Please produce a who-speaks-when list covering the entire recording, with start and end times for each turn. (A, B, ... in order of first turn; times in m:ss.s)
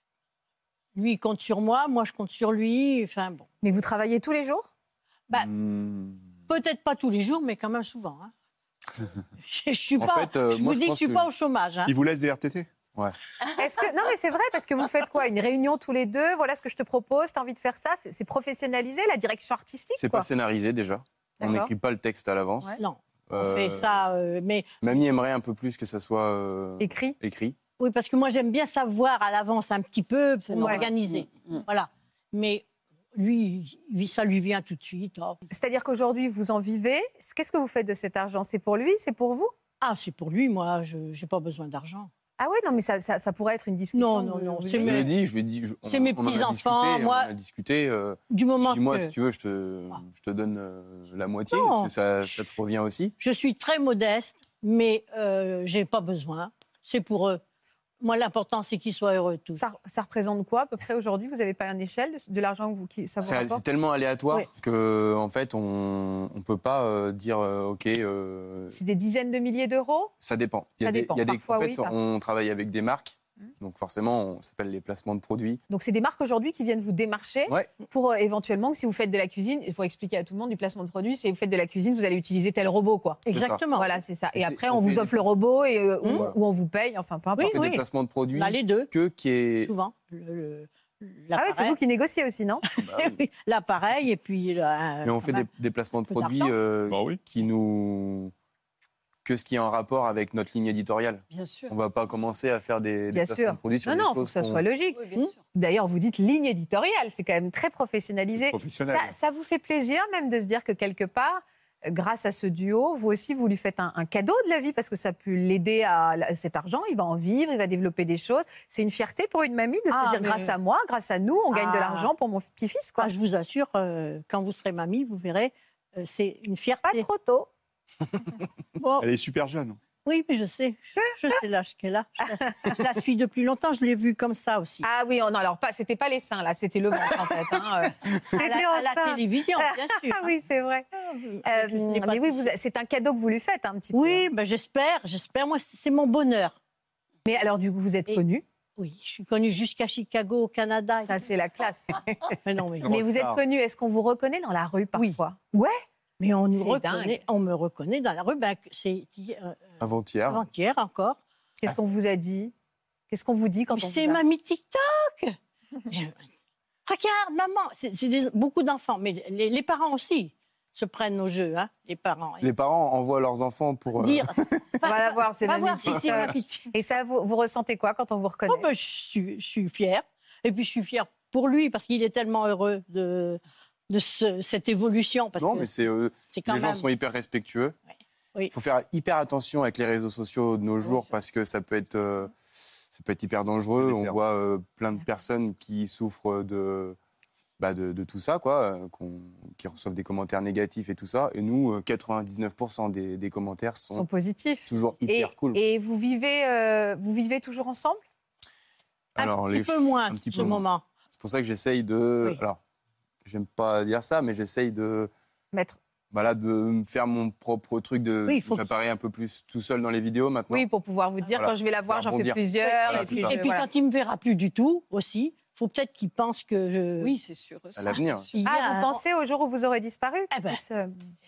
0:00.9-0:03.4 A
0:03.6-0:04.7 B
0:05.3-0:06.3 C
0:06.5-0:08.3 A
0:09.4-0:11.9 A
0:10.0-0:11.3 C
0:11.8-0:12.7 D
0:13.6-0:20.3 B
0:20.0-0:24.0 C
0:21.4-0:21.7 B
0:22.8-0:24.8 A
0:24.8-0:27.6 C
0:26.8-0:27.2 B
0:27.8-0:32.6 A
0:30.4-0:31.6 E
0:30.6-0:30.8 B
0:33.2-0:35.4 A
0:35.5-0:39.5 B
0:39.8-0:42.1 A
0:42.4-0:45.1 B
0:43.9-0:45.1 A
0:44.8-0:53.1 C
0:45.8-0:47.3 A
0:48.3-0:49.1 A
0:51.5-0:52.5 A
0:53.2-0:57.4 A
0:58.0-0:59.6 A
0:59.6-1:03.6 B
1:03.2-1:08.8 C
1:08.7-1:10.1 B
1:10.2-1:15.6 C
1:10.8-1:11.9 B
1:15.7-1:23.2 B
1:23.2-1:24.0 A
1:23.3-1:23.6 C
1:23.7-1:27.7 B
1:24.3-1:25.2 C
1:26.1-1:26.3 C
1:27.4-1:28.9 A
1:27.4-1:29.7 C
1:29.7-1:31.8 A
1:31.3-1:32.6 B
1:32.8-1:35.5 A
1:32.8-1:33.2 C
1:35.0-1:38.3 C
1:36.1-1:36.5 A
1:36.9-1:37.2 D
1:39.2-1:44.6 C
1:41.3-1:41.7 E
1:43.1-2:03.1 B
1:44.9-1:45.4 E
1:48.3-1:49.1 D
1:59.9-2:00.6 A
2:01.5-2:02.1 A
2:03.0-2:07.1 A
2:06.8-2:07.5 B
2:08.8-2:09.1 A
2:09.0-2:09.8 D
2:10.0-2:14.9 A
2:12.5-2:12.7 B
2:14.8-2:20.8 B
2:18.3-2:20.4 A
2:21.0-2:22.5 A
2:21.4-2:24.2 B
2:23.9-2:26.6 A
2:27.2-2:28.4 B
2:28.8-2:31.2 A
2:31.0-2:32.0 B
2:32.4-2:32.9 A
2:32.8-2:33.4 D
2:32.8-2:35.8 B
2:36.2-2:41.2 A
2:36.5-2:37.2 B
2:39.8-2:40.4 C
2:41.6-2:42.5 B
2:43.1-2:44.2 B
2:43.7-2:45.4 A
2:45.9-2:46.2 A
2:46.8-2:52.5 A
2:52.4-2:54.6 C
2:54.0-2:56.7 A
2:54.8-2:58.7 B
2:55.9-2:56.2 C
2:58.5-3:06.9 A
3:05.4-3:07.7 C
3:08.5-3:12.3 C
3:12.9-3:17.0 C
3:13.8-3:14.2 D
3:17.6-3:24.1 C
3:23.9-3:28.0 B
3:24.7-3:25.6 C
3:29.2-3:30.8 A
3:29.2-3:32.6 C
3:33.2-3:35.1 C
3:35.5-3:35.8 B
3:36.1-3:40.7 C
3:38.3-3:38.7 A
3:40.5-3:43.6 B
3:41.3-3:43.4 C
3:42.6-3:47.1 A
3:47.0-3:48.4 E
3:47.8-3:48.3 C
3:48.4-3:49.0 A
3:48.4-3:51.0 B
3:50.3-3:50.6 A